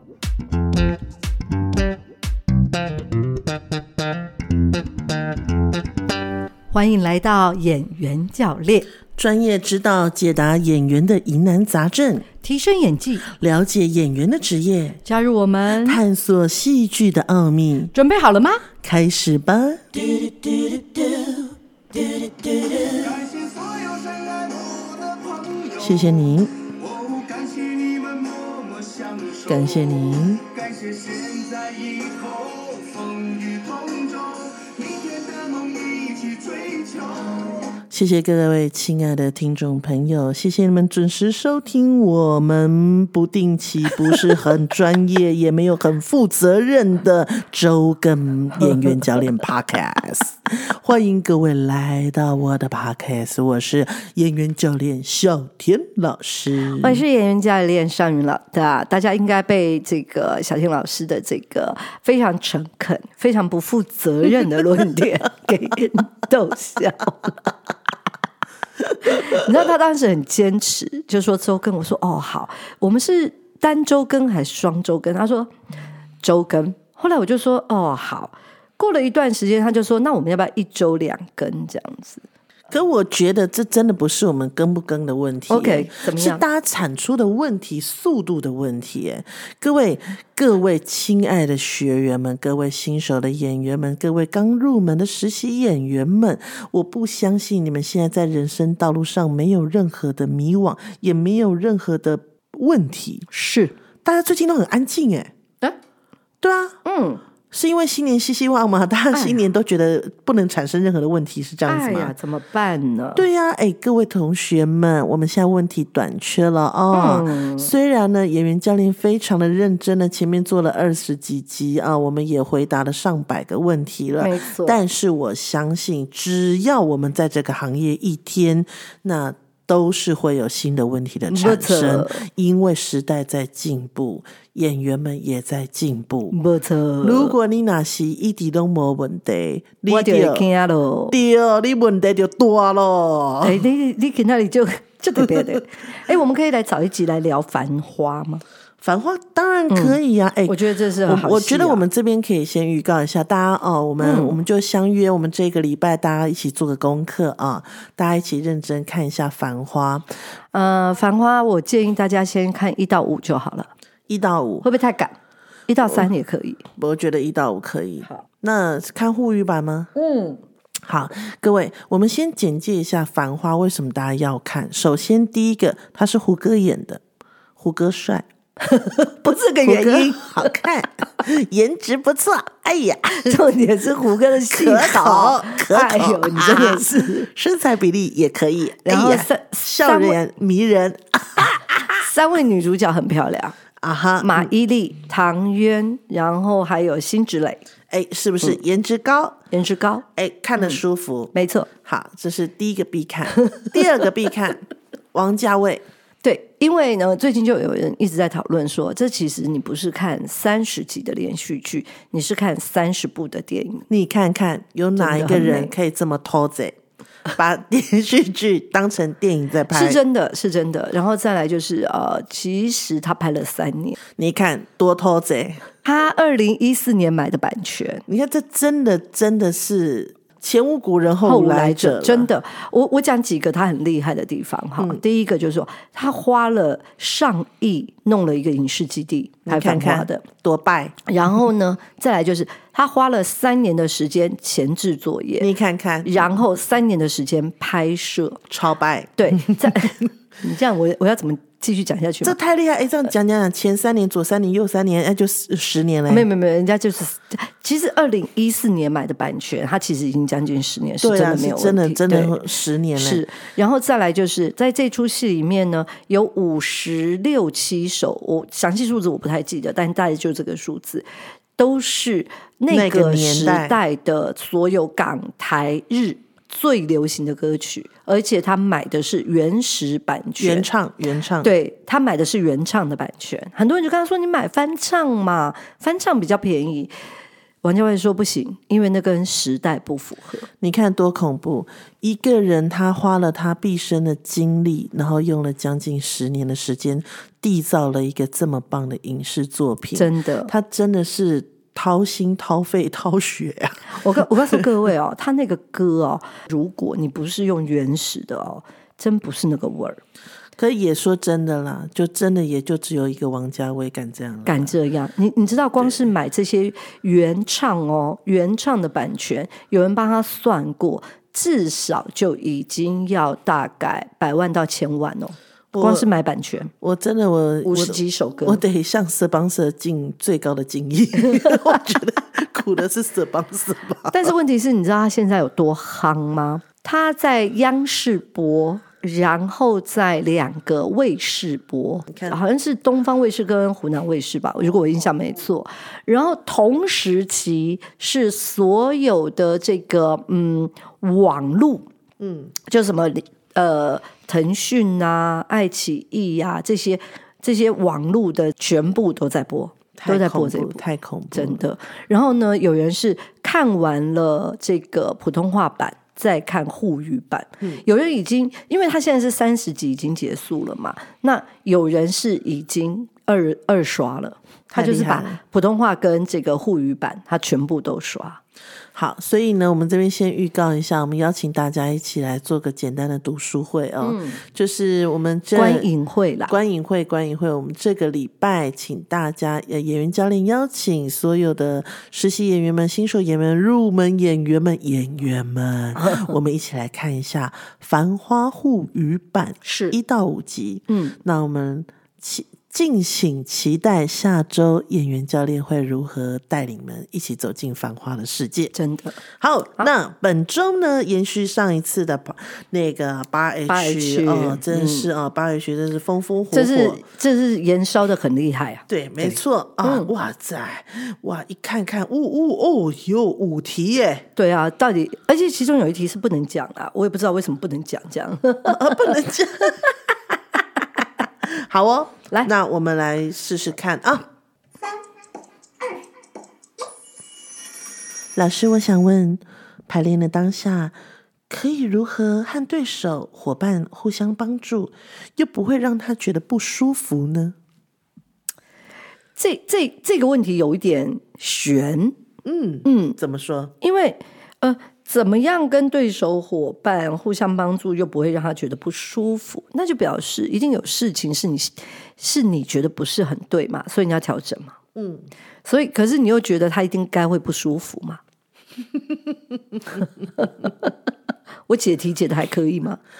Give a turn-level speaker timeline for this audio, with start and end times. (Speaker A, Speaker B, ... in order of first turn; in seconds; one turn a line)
Speaker A: 6.7-8.9
Speaker B: 9.1-12.3
Speaker A: 12.4-13.2
Speaker B: 13.3-15.0
Speaker A: 15.0-16.0
Speaker B: 15.7-17.9
Speaker A: 17.9-18.6
Speaker B: 18.8-23.0
Speaker C: 22.9-37.8
Speaker B: 25.8-26.6
Speaker B: 29.5-30.4
Speaker B: 37.9-57.0
Speaker A: 56.8-67.3
Speaker A: 69.0-75.5
Speaker A: 76.2-82.2
Speaker B: 82.7-103.3
Speaker A: 85.5-86.4
Speaker A: 103.3-103.7
Speaker B: 104.0-105.3
Speaker B: 106.4-106.8
Speaker A: 106.8-107.2
Speaker B: 107.5-112.1
Speaker A: 109.1-109.4
Speaker A: 111.7-113.2
Speaker B: 113.2-136.3
Speaker A: 116.9-117.7
Speaker A: 124.2-124.8
Speaker A: 131.3-132.2
Speaker A: 136.3-137.3
Speaker B: 137.0-140.4
Speaker A: 139.9-141.1
Speaker B: 141.1-143.6
Speaker A: 143.4-148.4
Speaker B: 148.8-160.0
Speaker A: 149.7-151.8
Speaker A: 154.0-154.4
Speaker A: 160.5-163.7
Speaker B: 164.1-164.7
Speaker A: 164.6-165.1
Speaker A: 165.7-166.6
Speaker B: 166.8-169.9
Speaker A: 170.1-170.3
Speaker B: 170.8-177.0
Speaker B: 177.6-178.2
Speaker A: 178.6-180.6
Speaker B: 179.6-183.4
Speaker A: 183.3-187.3
Speaker B: 184.5-192.1
Speaker A: 188.8-190.2
Speaker A: 192.0-193.6
Speaker B: 193.8-194.5
Speaker A: 194.2-197.6
Speaker B: 197.9-199.4
Speaker A: 199.5-200.0
Speaker B: 200.2-201.3
Speaker A: 201.3-201.7
Speaker B: 201.8-205.8
Speaker A: 206.2-213.8
Speaker B: 213.9-220.0
Speaker A: 214.9-215.7
Speaker A: 219.7-224.0
Speaker B: 224.2-225.6
Speaker A: 225.8-228.0
Speaker B: 228.1-232.3
Speaker A: 231.2-240.2
Speaker B: 239.5-240.9
Speaker A: 241.1-245.5
Speaker B: 245.4-246.3
Speaker A: 246.0-248.4
Speaker B: 248.5-250.1
Speaker A: 249.2-252.3
Speaker B: 252.2-256.3
Speaker A: 256.1-262.3
Speaker B: 261.0-263.2
Speaker A: 262.9-271.1
Speaker A: 271.6-280.7
Speaker B: 272.7-273.8
Speaker B: 280.4-281.5
Speaker A: 281.4-286.9
Speaker A: 287.6-290.5
Speaker B: 290.6-304.6
Speaker A: 299.9-300.5
Speaker A: 303.9-310.0
Speaker B: 310.6-314.7
Speaker A: 314.4-326.7
Speaker B: 325.7-326.1
Speaker B: 326.8-334.3
Speaker A: 327.6-328.6
Speaker A: 334.1-351.9
Speaker B: 342.1-342.4
Speaker B: 352.2-352.5
Speaker A: 352.6-360.8
Speaker B: 359.9-361.6
Speaker A: 361.3-378.4
Speaker B: 374.7-375.4
Speaker B: 378.9-385.9
Speaker A: 384.0-384.4
Speaker A: 385.5-386.5
Speaker B: 386.5-408.7
Speaker A: 399.6-399.9
Speaker A: 400.9-401.1
Speaker A: 408.7-409.2
Speaker B: 409.3-417.0
Speaker A: 413.7-415.1
Speaker A: 416.5-420.1
Speaker B: 418.9-424.3
Speaker A: 424.4-429.2
Speaker B: 428.6-430.0
Speaker B: 431.4-434.3
Speaker B: 438.3-440.9
Speaker B: 441.5-447.6
Speaker A: 449.4-452.1
Speaker B: 452.4-453.7
Speaker A: 452.8-453.2
Speaker A: 453.8-464.8
Speaker B: 464.9-465.3
Speaker A: 465.6-468.2
Speaker A: 470.4-470.9
Speaker A: 471.7-473.0